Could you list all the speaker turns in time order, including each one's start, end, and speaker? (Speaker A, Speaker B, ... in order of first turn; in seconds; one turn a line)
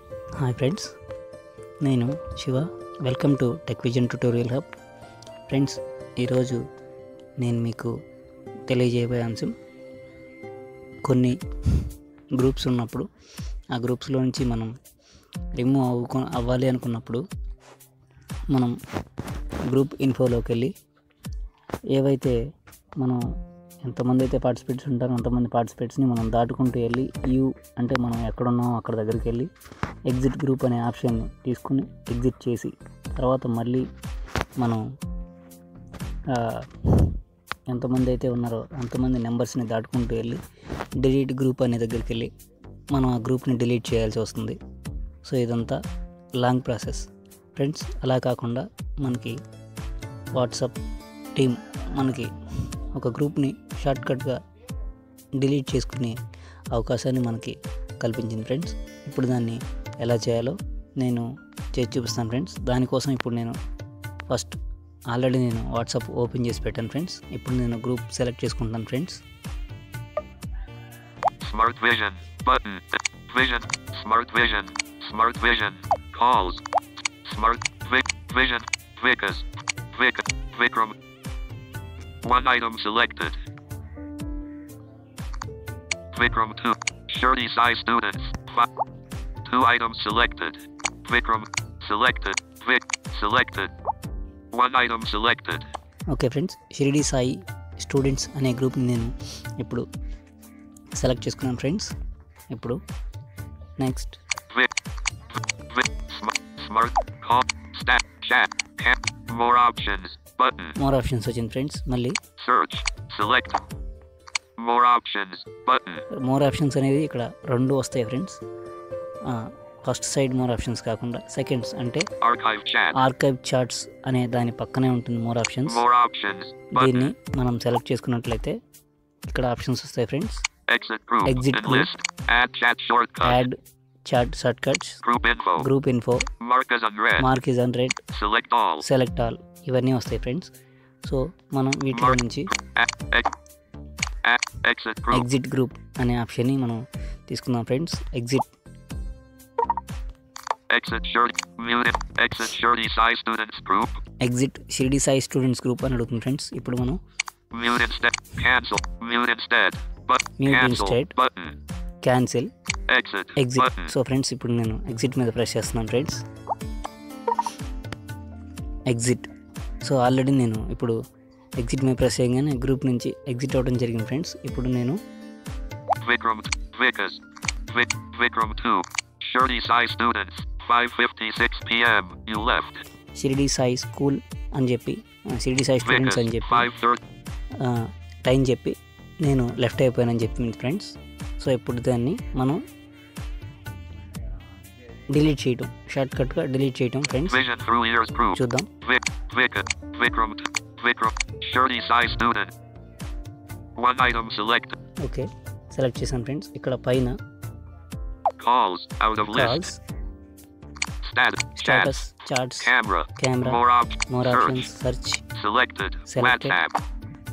Speaker A: 0.4-0.9
Speaker A: 1.8-4.7
Speaker A: 5.5-6.6
Speaker A: 7.4-7.9
Speaker A: 8.7-9.5
Speaker A: 11.0-11.8
Speaker A: 12.3-13.1
Speaker A: 13.7-14.7
Speaker A: 15.6-17.2
Speaker A: 19.7-20.7
Speaker A: 21.9-22.4
Speaker A: 23.8-29.5
Speaker A: 30.1-33.9
Speaker A: 36.3-37.2
Speaker A: 37.7-40.4
Speaker A: 41.0-42.3
Speaker A: 42.9-44.6
Speaker A: 45.2-45.8
Speaker A: 46.4-49.4
Speaker A: 50.3-50.8
Speaker A: 51.4-52.3
Speaker A: 52.9-54.4
Speaker A: 55.4-56.1
Speaker A: 56.7-63.6
Speaker A: 64.3-64.5
Speaker A: 65.1-69.2
Speaker B: 71.4-76.6
Speaker B: 77.2-80.9
Speaker B: 82.2-83.4
Speaker B: 86.1-88.7
Speaker B: 89.4-93.7
Speaker B: 94.5-95.7
Speaker A: 96.1-99.8
Speaker A: 101.0-101.9
Speaker A: 102.5-102.8
Speaker A: 103.8-104.2
Speaker B: 105.7-110.8
Speaker A: 110.8-112.2
Speaker B: 112.4-113.6
Speaker B: 114.6-116.0
Speaker A: 116.1-118.4
Speaker A: 119.3-122.0
Speaker B: 122.2-123.0
Speaker A: 122.9-125.8
Speaker B: 125.7-127.1
Speaker A: 126.7-128.6
Speaker A: 129.3-130.4
Speaker B: 130.7-133.4
Speaker A: 131.2-131.9
Speaker A: 133.2-135.0
Speaker B: 135.0-135.7
Speaker A: 135.6-136.3
Speaker B: 136.4-137.3
Speaker A: 137.2-138.0
Speaker B: 138.1-138.8
Speaker A: 138.8-140.5
Speaker A: 141.0-142.5
Speaker B: 141.9-143.3
Speaker B: 144.2-145.2
Speaker A: 145.1-148.4
Speaker B: 150.7-154.0
Speaker A: 154.2-157.0
Speaker B: 157.5-161.6
Speaker A: 160.4-161.1
Speaker A: 162.0-162.5
Speaker B: 162.9-163.9
Speaker A: 163.3-166.2
Speaker A: 168.9-169.3
Speaker A: 169.8-170.9
Speaker A: 171.6-175.0
Speaker B: 176.0-182.8
Speaker A: 183.2-186.7
Speaker B: 185.8-187.0
Speaker A: 187.6-192.6
Speaker A: 195.1-197.4
Speaker B: 197.3-202.5
Speaker A: 198.3-198.7
Speaker B: 203.8-204.8
Speaker A: 205.0-207.2
Speaker B: 208.4-209.7
Speaker A: 209.3-209.8
Speaker B: 211.0-212.0
Speaker A: 211.6-215.2
Speaker B: 212.6-214.7
Speaker B: 215.3-216.8
Speaker A: 216.1-216.6